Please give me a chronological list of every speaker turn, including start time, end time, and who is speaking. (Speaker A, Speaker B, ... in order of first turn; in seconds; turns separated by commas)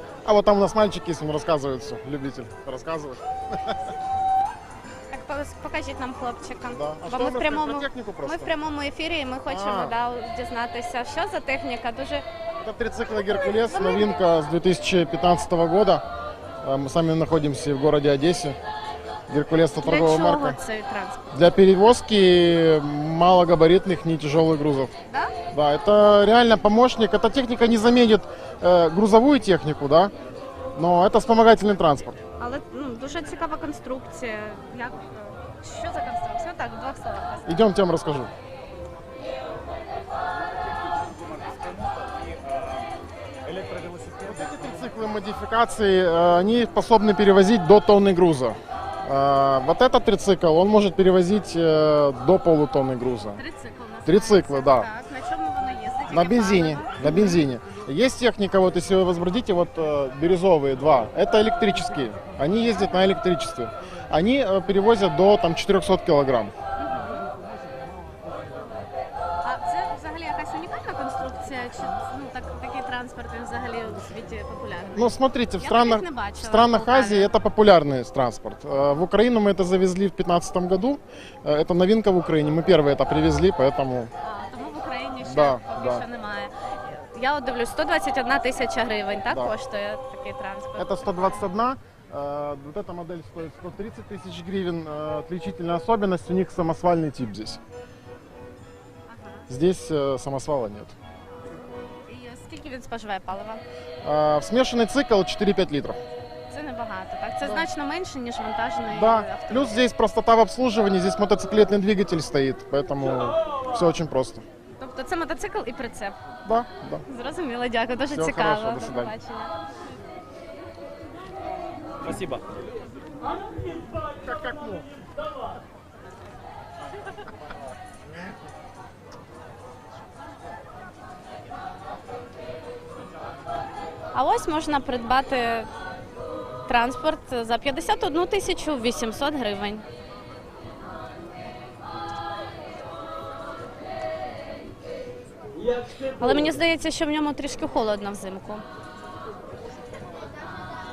Speaker A: 0.2-3.9, Speaker B: 5.1-12.2, Speaker A: 6.7-8.5, Speaker A: 9.5-9.9, Speaker A: 12.6-16.0, Speaker B: 13.6-14.2, Speaker A: 16.6-18.6, Speaker A: 19.3-20.6, Speaker B: 19.8-21.2, Speaker A: 21.3-24.9, Speaker B: 25.1-25.3, Speaker A: 25.5-30.1, Speaker A: 30.7-32.2, Speaker B: 32.4-37.7, Speaker A: 37.5-38.3, Speaker C: 40.6-42.9, Speaker C: 43.4-44.9, Speaker A: 44.2-53.4, Speaker B: 53.3-57.4, Speaker A: 54.0-54.9, Speaker A: 56.1-66.5, Speaker B: 66.8-67.2, Speaker B: 69.4-77.3, Speaker A: 75.0-84.1, Speaker B: 84.2-91.4, Speaker A: 85.2-86.0, Speaker A: 90.8-97.6, Speaker B: 99.1-99.5, Speaker A: 99.5-100.9, Speaker B: 102.1-103.6, Speaker A: 104.0-106.0, Speaker B: 106.5-109.8, Speaker A: 107.4-107.7, Speaker A: 108.9-114.4, Speaker B: 114.8-116.2, Speaker A: 116.4-117.0, Speaker B: 117.1-119.5, Speaker A: 118.1-119.1, Speaker C: 122.0-122.4, Speaker A: 124.2-124.9, Speaker B: 134.1-135.7, Speaker B: 136.7-139.8, Speaker B: 146.1-148.6